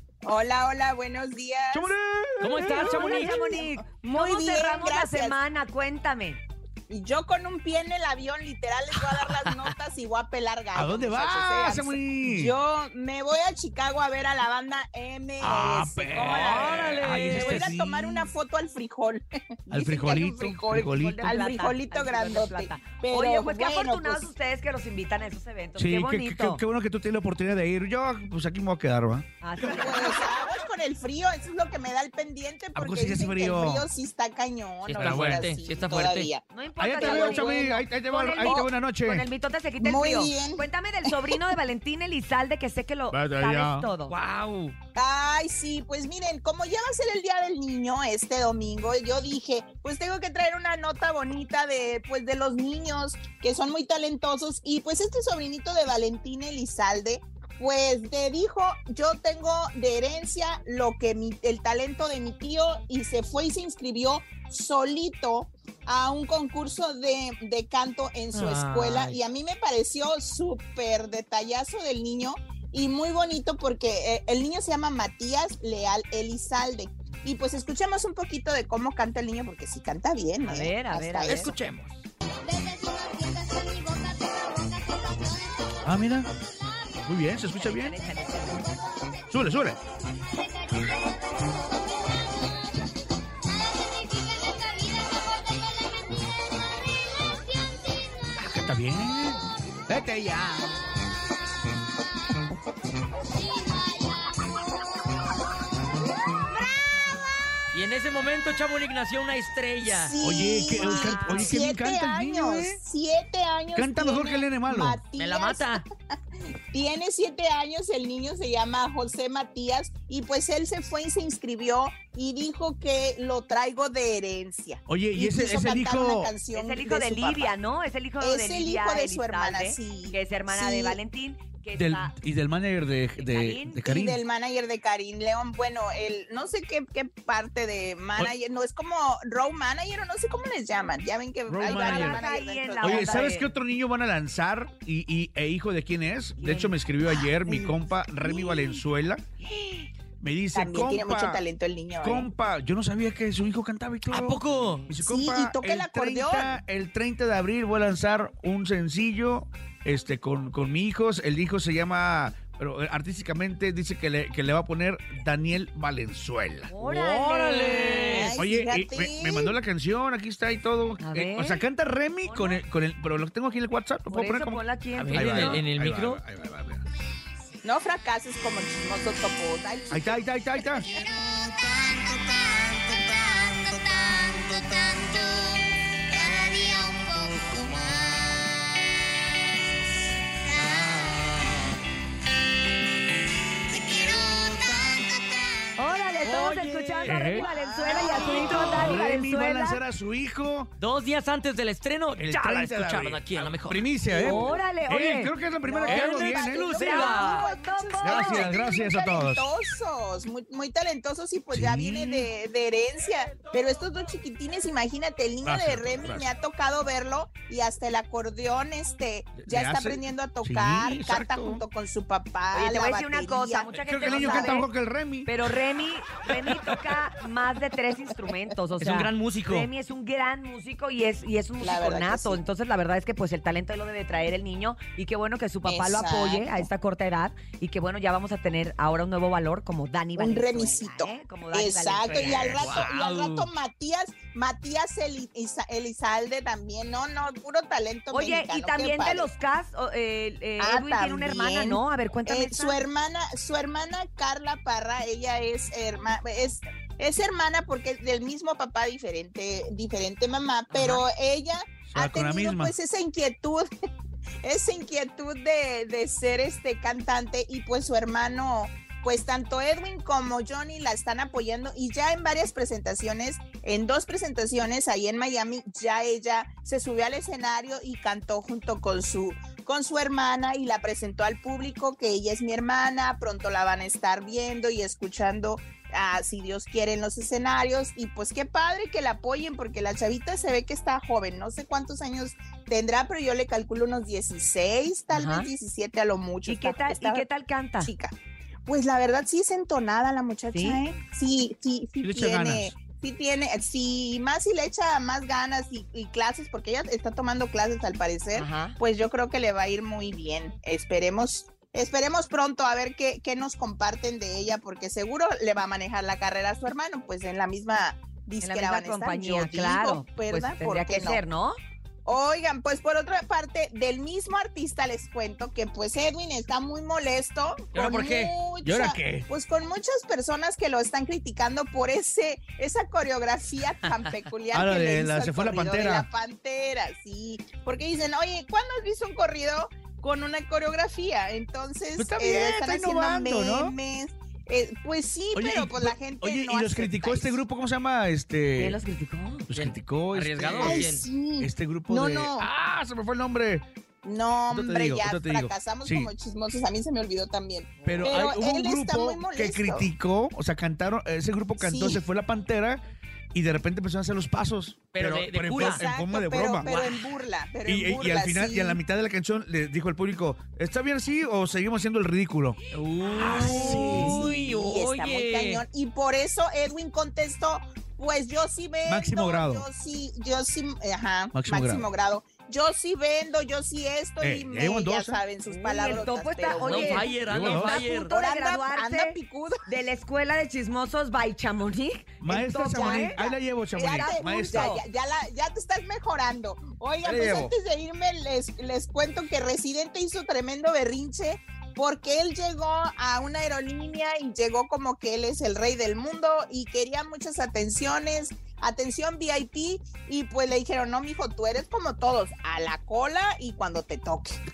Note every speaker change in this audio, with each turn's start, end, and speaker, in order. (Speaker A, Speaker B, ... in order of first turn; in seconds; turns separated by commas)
Speaker A: 0.2-1.9, Speaker B: 1.7-3.2, Speaker C: 2.4-3.4, Speaker D: 2.6-6.4, Speaker A: 2.8-5.4, Speaker A: 6.9-24.3, Speaker C: 9.0-9.7, Speaker B: 10.7-12.5, Speaker B: 15.4-18.3, Speaker C: 16.1-17.7, Speaker B: 19.7-21.4, Speaker D: 21.0-26.6, Speaker B: 25.8-29.3, Speaker D: 29.4-30.1, Speaker A: 29.6-36.4, Speaker B: 32.7-33.9, Speaker C: 34.9-36.3, Speaker B: 35.0-35.4, Speaker D: 36.5-44.1, Speaker B: 36.8-39.2, Speaker A: 37.0-37.8, Speaker A: 38.4-38.7, Speaker A: 39.8-41.4, Speaker B: 43.1-43.9, Speaker C: 44.1-44.8, Speaker A: 45.0-81.5, Speaker C: 68.3-69.2, Speaker D: 80.4-81.5, Speaker C: 81.2-82.0, Speaker E: 82.5-85.5, Speaker B: 85.8-86.3, Speaker B: 87.0-88.0, Speaker D: 87.7-88.7, Speaker B: 89.3-89.8, Speaker E: 93.8-96.3, Speaker B: 98.4-100.8, Speaker E: 103.7-104.2, Speaker C: 107.7-110.1, Speaker A: 109.8-115.8, Speaker B: 110.2-112.8, Speaker C: 110.8-111.5, Speaker B: 113.7-115.0, Speaker C: 115.2-115.8, Speaker A: 116.7-127.6, Speaker B: 124.9-126.3, Speaker D: 126.5-132.1, Speaker A: 128.2-131.0, Speaker B: 131.8-134.2, Speaker D: 133.2-133.8, Speaker A: 133.8-143.4, Speaker B: 141.5-142.2, Speaker D: 141.6-143.5, Speaker B: 142.8-149.2, Speaker D: 146.4-147.7, Speaker D: 148.2-148.8, Speaker B: 150.2-151.4, Speaker A: 150.5-152.3, Speaker B: 152.0-166.7, Speaker C: 154.1-154.9, Speaker D: 154.6-154.9, Speaker A: 155.0-156.6, Speaker D: 166.7-168.3, Speaker C: 166.8-168.4, Speaker A: 167.9-169.5, Speaker B: 168.4-176.8, Speaker D: 171.0-171.6, Speaker D: 172.2-172.6, Speaker D: 174.1-175.6, Speaker C: 174.9-176.2, Speaker A: 177.6-181.1, Speaker B: 179.9-180.9, Speaker E: 182.3-182.7, Speaker E: 183.7-185.5, Speaker E: 186.3-187.3, Speaker D: 195.8-199.8, Speaker C: 196.2-199.0, Speaker B: 197.1-200.7, Speaker A: 197.5-198.7, Speaker C: 200.8-203.9, Speaker B: 202.2-206.8, Speaker A: 204.1-204.6, Speaker D: 204.2-205.3, Speaker A: 205.7-224.6, Speaker C: 205.9-207.4, Speaker D: 206.7-208.5, Speaker B: 208.0-209.5, Speaker B: 211.5-212.3, Speaker B: 215.4-216.3, Speaker B: 219.4-221.6, Speaker D: 222.5-224.7, Speaker B: 223.9-225.3, Speaker D: 225.2-242.6, Speaker B: 226.4-226.8, Speaker B: 228.8-229.7, Speaker A: 231.6-232.4, Speaker A: 235.7-236.7, Speaker A: 240.2-249.3, Speaker C: 242.1-243.5, Speaker B: 242.2-242.9, Speaker D: 248.1-252.8, Speaker A: 250.6-263.7, Speaker C: 260.7-261.1, Speaker B: 261.9-262.7, Speaker A: 264.4-297.2, Speaker D: 295.1-295.5, Speaker D: 296.4-297.9, Speaker A: 297.8-298.1, Speaker A: 298.6-321.2, Speaker D: 300.5-300.8, Speaker B: 302.0-302.8, Speaker D: 308.3-308.8, Speaker D: 318.4-321.6, Speaker A: 322.1-347.4, Speaker C: 327.7-328.3, Speaker B: 328.6-329.3, Speaker B: 334.5-336.1, Speaker B: 342.0-343.7, Speaker B: 345.3-348.8, Speaker D: 348.6-349.5, Speaker B: 349.5-353.6, Speaker C: 349.5-351.1, Speaker A: 350.5-352.5, Speaker A: 354.0-359.9, Speaker B: 354.5-356.1, Speaker B: 357.8-366.7, Speaker A: 361.6-362.0, Speaker C: 364.9-365.9, Speaker A: 365.5-368.8, Speaker C: 366.6-367.2, Speaker B: 367.6-372.6, Speaker C: 372.7-375.6, Speaker D: 373.0-374.1, Speaker B: 373.2-374.2, Speaker A: 373.2-387.1, Speaker B: 378.8-379.6, Speaker B: 381.3-381.9, Speaker B: 384.2-385.2, Speaker D: 385.5-393.2, Speaker C: 386.6-388.1, Speaker B: 387.2-387.8, Speaker A: 388.0-389.6, Speaker B: 392.2-394.8, Speaker A: 392.7-414.4, Speaker D: 393.8-394.8, Speaker B: 397.0-397.5